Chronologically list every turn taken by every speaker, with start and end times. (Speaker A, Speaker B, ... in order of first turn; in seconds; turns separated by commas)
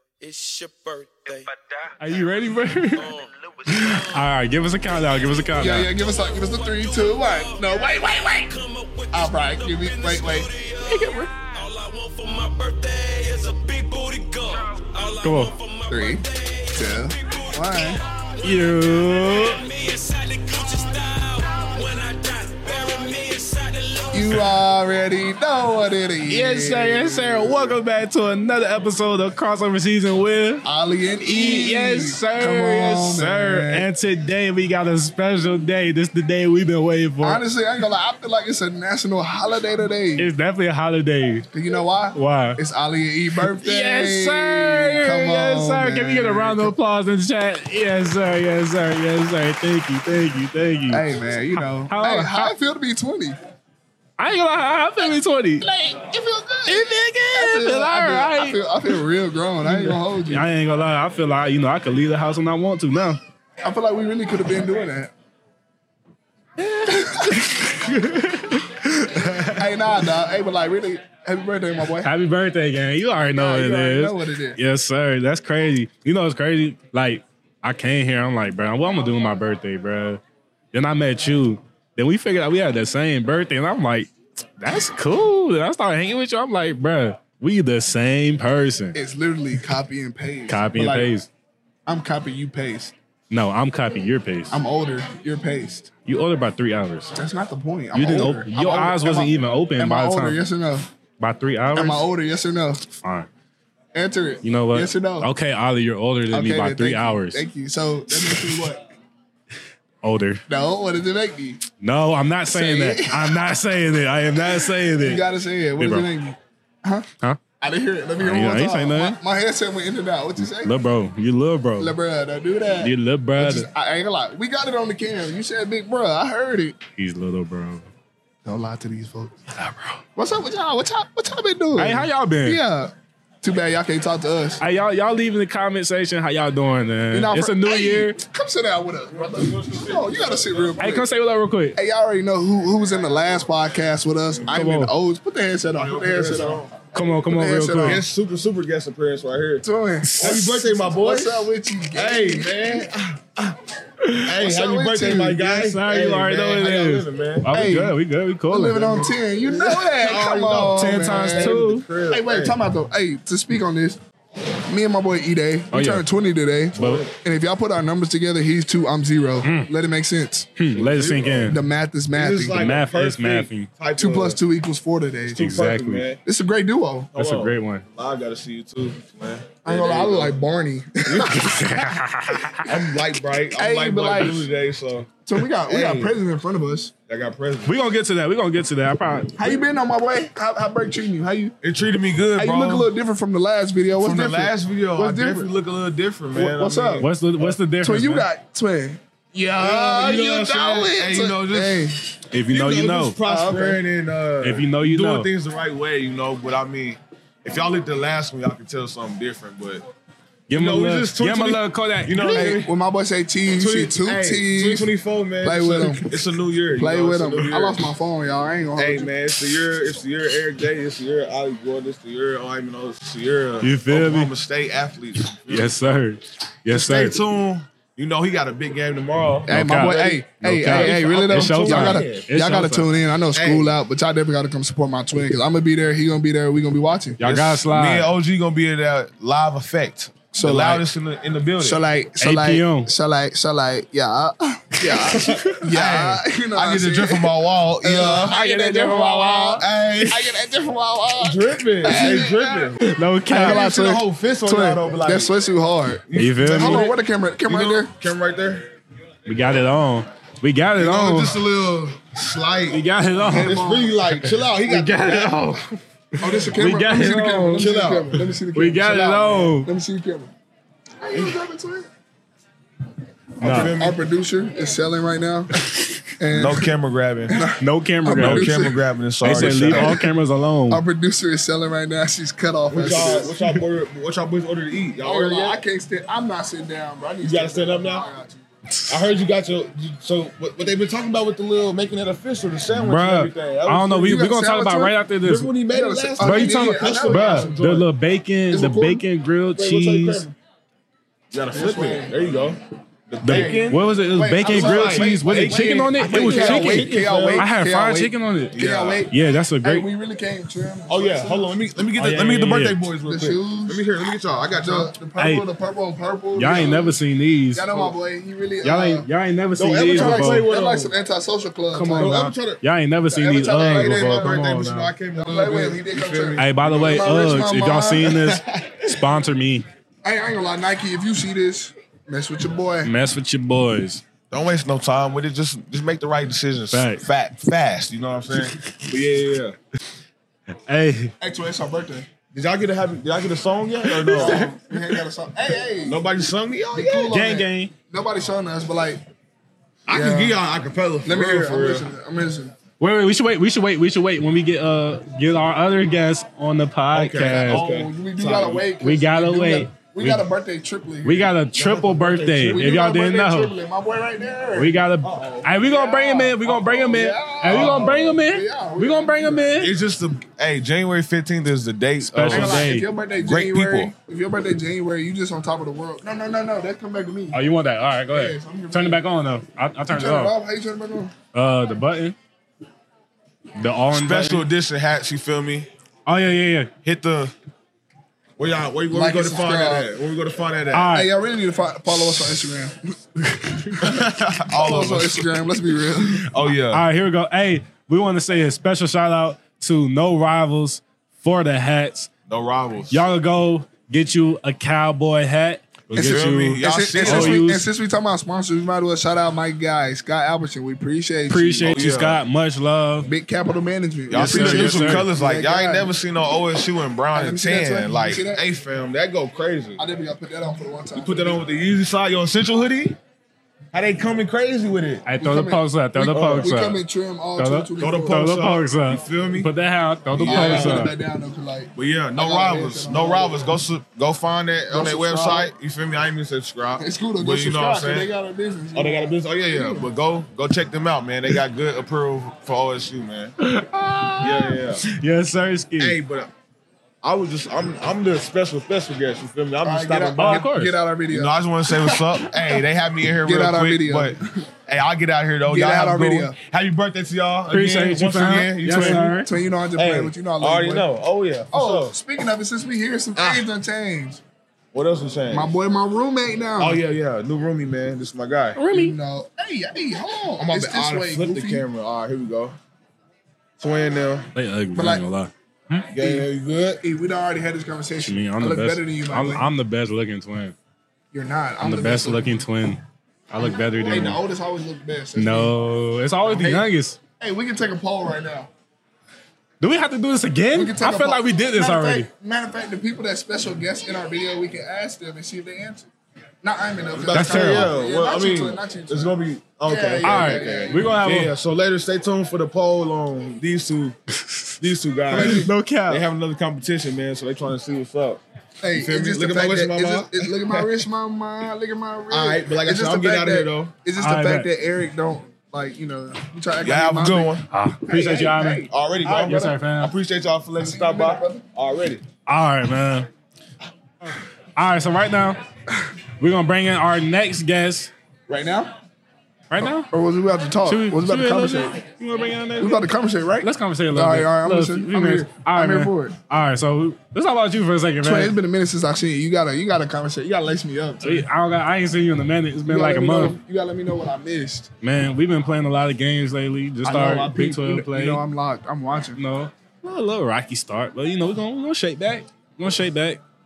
Speaker A: 0.2-2.2, Speaker B: 2.0-3.1, Speaker A: 2.9-4.2, Speaker B: 3.7-5.9, Speaker A: 5.0-24.4, Speaker C: 5.6-8.6, Speaker C: 9.1-10.5, Speaker B: 10.8-11.3, Speaker B: 15.2-15.5, Speaker C: 15.9-18.0, Speaker B: 18.4-19.6, Speaker C: 24.1-27.8, Speaker B: 26.2-30.6, Speaker C: 30.6-33.9, Speaker B: 31.2-37.4, Speaker C: 37.2-40.3, Speaker B: 40.2-41.5, Speaker C: 41.5-46.7, Speaker B: 42.1-42.6, Speaker B: 43.5-52.5, Speaker C: 50.9-53.4, Speaker B: 54.2-55.7, Speaker C: 55.6-60.5, Speaker B: 56.6-58.6, Speaker B: 59.6-63.2, Speaker C: 63.6-65.1, Speaker B: 66.6-69.9, Speaker C: 66.9-67.5, Speaker C: 69.4-72.1, Speaker B: 72.0-80.2, Speaker C: 73.3-74.6, Speaker B: 80.7-89.0, Speaker C: 88.9-91.1, Speaker B: 90.5-91.3, Speaker C: 91.8-92.9, Speaker B: 93.3-94.6, Speaker C: 94.5-95.9, Speaker B: 96.0-97.1, Speaker C: 97.1-100.9, Speaker B: 97.9-100.4, Speaker B: 101.2-102.0, Speaker C: 101.8-102.9, Speaker B: 103.0-103.3, Speaker C: 103.9-105.3, Speaker B: 104.4-107.4, Speaker C: 106.3-108.9, Speaker B: 110.0-110.4, Speaker C: 110.5-111.6, Speaker B: 111.8-115.2, Speaker C: 112.5-113.6, Speaker C: 114.6-117.1, Speaker B: 115.8-116.1, Speaker C: 117.6-120.7, Speaker B: 118.2-119.2, Speaker B: 120.6-121.9, Speaker C: 121.8-126.8, Speaker B: 122.8-123.7, Speaker B: 127.0-127.9, Speaker C: 128.4-129.4, Speaker B: 129.6-130.0, Speaker C: 130.2-134.6, Speaker B: 131.8-132.6, Speaker B: 134.6-138.2, Speaker C: 137.1-141.1, Speaker D: 139.2-140.8, Speaker B: 140.8-141.8, Speaker C: 141.8-148.0, Speaker B: 144.5-144.9, Speaker D: 145.8-146.7, Speaker B: 146.9-148.0, Speaker D: 147.8-149.6, Speaker C: 149.6-152.9, Speaker B: 150.0-150.6, Speaker D: 150.2-153.6, Speaker B: 154.0-154.3, Speaker D: 154.2-157.5, Speaker C: 154.3-155.4, Speaker B: 155.4-159.1, Speaker C: 157.5-157.9, Speaker C: 158.5-164.0, Speaker D: 159.4-162.6, Speaker B: 160.8-161.9, Speaker C: 164.7-170.5, Speaker B: 165.7-166.0, Speaker D: 166.7-167.1, Speaker B: 166.8-167.0, Speaker B: 169.4-169.7, Speaker B: 170.6-171.6, Speaker D: 170.7-171.5, Speaker C: 171.5-172.7, Speaker D: 172.1-174.4, Speaker B: 172.5-173.7, Speaker C: 174.0-175.4, Speaker D: 175.3-176.2, Speaker B: 175.4-176.1, Speaker C: 176.2-177.1, Speaker D: 177.1-180.3, Speaker B: 177.2-177.8, Speaker C: 179.6-181.5, Speaker D: 181.1-181.9, Speaker B: 181.2-182.6, Speaker D: 182.5-186.2, Speaker C: 183.5-184.5, Speaker C: 185.3-186.9, Speaker D: 187.1-187.7, Speaker B: 187.7-189.5, Speaker C: 189.3-191.5, Speaker D: 191.6-192.9, Speaker C: 192.3-195.5, Speaker D: 194.0-197.5, Speaker C: 196.3-197.0, Speaker B: 197.0-198.2, Speaker C: 197.8-202.0, Speaker D: 199.6-209.8, Speaker B: 202.3-203.2, Speaker C: 203.2-203.8, Speaker B: 204.4-205.3, Speaker B: 210.5-212.6, Speaker D: 210.5-212.7, Speaker C: 212.3-214.9, Speaker D: 213.5-217.8, Speaker C: 215.4-216.1, Speaker C: 216.8-219.1, Speaker D: 218.8-225.7, Speaker B: 223.6-224.3, Speaker B: 225.5-227.2, Speaker D: 226.7-232.2, Speaker C: 229.5-237.2, Speaker B: 229.5-232.9, Speaker D: 233.3-233.7, Speaker B: 237.2-238.1, Speaker D: 237.2-241.8, Speaker C: 240.3-240.9, Speaker C: 241.6-252.8, Speaker B: 242.2-242.9, Speaker B: 245.1-245.6, Speaker D: 245.1-250.3, Speaker D: 251.2-252.8, Speaker B: 252.8-253.6, Speaker C: 253.3-257.9, Speaker D: 253.3-255.3, Speaker D: 256.0-258.7, Speaker B: 256.1-256.9, Speaker B: 259.3-261.4, Speaker D: 260.8-262.8, Speaker B: 262.7-263.6, Speaker C: 263.2-264.2, Speaker D: 263.3-265.6, Speaker B: 264.4-267.7, Speaker C: 266.2-270.3, Speaker D: 267.5-268.3, Speaker B: 268.5-269.7, Speaker C: 271.0-271.9, Speaker B: 273.4-273.7, Speaker D: 273.4-274.0, Speaker C: 273.5-275.5, Speaker B: 275.6-276.1, Speaker C: 276.2-276.7, Speaker D: 276.3-277.4, Speaker C: 277.3-280.1, Speaker B: 277.6-280.8, Speaker D: 278.1-280.0, Speaker C: 280.7-283.4, Speaker D: 282.7-285.6, Speaker C: 285.0-288.4, Speaker D: 287.2-288.1, Speaker D: 288.9-294.2, Speaker B: 292.7-295.5, Speaker C: 294.0-294.9, Speaker D: 295.2-297.9, Speaker C: 295.7-297.5, Speaker B: 296.2-300.3, Speaker C: 298.5-299.1, Speaker D: 299.6-300.3, Speaker D: 301.3-303.9, Speaker C: 301.5-302.2, Speaker B: 303.2-309.9, Speaker C: 303.3-311.6, Speaker D: 304.4-307.4, Speaker D: 308.5-309.1, Speaker D: 310.9-314.9, Speaker B: 312.0-312.8, Speaker C: 313.1-313.8, Speaker C: 314.5-317.0, Speaker B: 315.2-315.4, Speaker B: 316.3-317.7, Speaker D: 316.4-316.8, Speaker C: 317.5-319.1, Speaker B: 318.6-320.5, Speaker D: 319.6-320.9, Speaker C: 319.9-322.3, Speaker B: 321.7-324.9, Speaker D: 321.9-322.6, Speaker C: 323.1-324.4, Speaker D: 323.5-327.4, Speaker C: 325.1-328.2, Speaker B: 326.4-329.6, Speaker D: 328.1-329.0, Speaker C: 330.0-332.9, Speaker B: 332.8-334.0, Speaker D: 334.3-339.6, Speaker B: 336.7-337.0, Speaker B: 340.6-341.1, Speaker C: 341.2-342.1, Speaker D: 342.3-344.4, Speaker B: 343.9-345.0, Speaker C: 344.1-346.0, Speaker D: 345.8-347.1, Speaker C: 346.7-349.0, Speaker B: 347.1-347.7, Speaker D: 349.9-351.9, Speaker C: 349.9-350.4, Speaker C: 351.0-352.6, Speaker B: 352.8-357.6, Speaker D: 356.9-358.7, Speaker C: 357.3-361.3, Speaker B: 358.8-360.3, Speaker B: 361.0-363.5, Speaker D: 361.5-362.6, Speaker C: 362.4-364.8, Speaker B: 364.6-369.7, Speaker D: 365.0-365.5, Speaker C: 365.5-369.5, Speaker D: 366.4-368.2, Speaker D: 369.6-373.9, Speaker B: 372.0-372.9, Speaker C: 372.2-377.4, Speaker B: 377.3-380.4, Speaker C: 378.1-379.0, Speaker C: 379.9-381.1, Speaker B: 381.3-382.1, Speaker B: 383.6-384.5, Speaker D: 383.9-385.7, Speaker B: 386.1-386.7, Speaker D: 386.8-387.3, Speaker D: 388.4-390.9, Speaker C: 388.9-389.9, Speaker B: 390.7-391.1, Speaker C: 390.9-394.0, Speaker D: 393.8-395.2, Speaker C: 394.5-396.2, Speaker D: 396.0-396.8, Speaker B: 396.7-402.1, Speaker D: 402.3-403.0, Speaker B: 402.9-407.6, Speaker D: 405.9-407.5, Speaker C: 405.9-411.7, Speaker B: 411.3-413.1, Speaker D: 411.6-412.2, Speaker C: 413.1-415.9, Speaker D: 414.1-419.8, Speaker B: 414.1-415.1, Speaker C: 417.1-418.4, Speaker C: 419.8-421.4, Speaker D: 420.9-423.0, Speaker D: 423.7-425.0, Speaker B: 425.0-426.8, Speaker C: 425.2-428.3, Speaker D: 426.1-426.5, Speaker B: 427.4-430.9, Speaker D: 427.8-429.5, Speaker D: 430.2-430.9, Speaker C: 430.2-433.4, Speaker D: 431.8-438.1, Speaker C: 434.7-435.5, Speaker C: 436.8-439.9, Speaker D: 438.7-443.4, Speaker B: 443.4-446.0, Speaker D: 444.2-444.8, Speaker D: 445.8-446.3, Speaker D: 447.0-450.4, Speaker C: 449.6-451.3, Speaker B: 450.2-450.8, Speaker D: 451.1-461.9, Speaker C: 453.2-454.4, Speaker C: 455.4-456.4, Speaker B: 457.5-459.3, Speaker C: 458.2-460.9, Speaker C: 461.5-464.2, Speaker D: 463.1-463.4, Speaker D: 464.7-465.5, Speaker C: 465.3-466.8, Speaker D: 466.6-468.6, Speaker B: 468.6-468.9, Speaker C: 468.7-471.6, Speaker D: 470.4-472.6, Speaker D: 473.6-474.3, Speaker B: 474.3-475.9, Speaker C: 474.7-475.0, Speaker D: 475.9-476.8, Speaker C: 475.9-476.3, Speaker C: 476.8-479.4, Speaker B: 478.0-480.5, Speaker C: 481.1-482.4, Speaker B: 481.6-484.2, Speaker C: 483.6-485.5, Speaker B: 485.1-487.0, Speaker C: 486.3-486.7, Speaker C: 487.2-488.5, Speaker B: 489.6-492.1, Speaker C: 490.5-495.9, Speaker C: 496.4-500.9, Speaker D: 497.0-503.9, Speaker B: 497.1-497.7, Speaker B: 500.0-501.3, Speaker D: 504.6-508.2, Speaker C: 505.1-505.5, Speaker B: 505.1-506.0, Speaker C: 508.6-519.6, Speaker D: 508.7-510.8, Speaker D: 512.1-513.7, Speaker B: 514.0-514.5, Speaker D: 516.6-517.5, Speaker B: 517.5-519.9, Speaker D: 518.7-522.0, Speaker C: 520.6-521.5, Speaker B: 522.2-523.1, Speaker B: 524.5-525.4, Speaker B: 526.2-527.9, Speaker C: 528.3-528.7, Speaker B: 529.5-529.9, Speaker C: 529.6-531.8, Speaker B: 530.6-532.9, Speaker C: 532.6-536.1, Speaker B: 533.4-538.3, Speaker C: 538.0-541.3, Speaker B: 541.0-543.4, Speaker C: 542.7-544.7, Speaker B: 544.8-548.2, Speaker C: 546.8-549.2, Speaker B: 549.1-553.2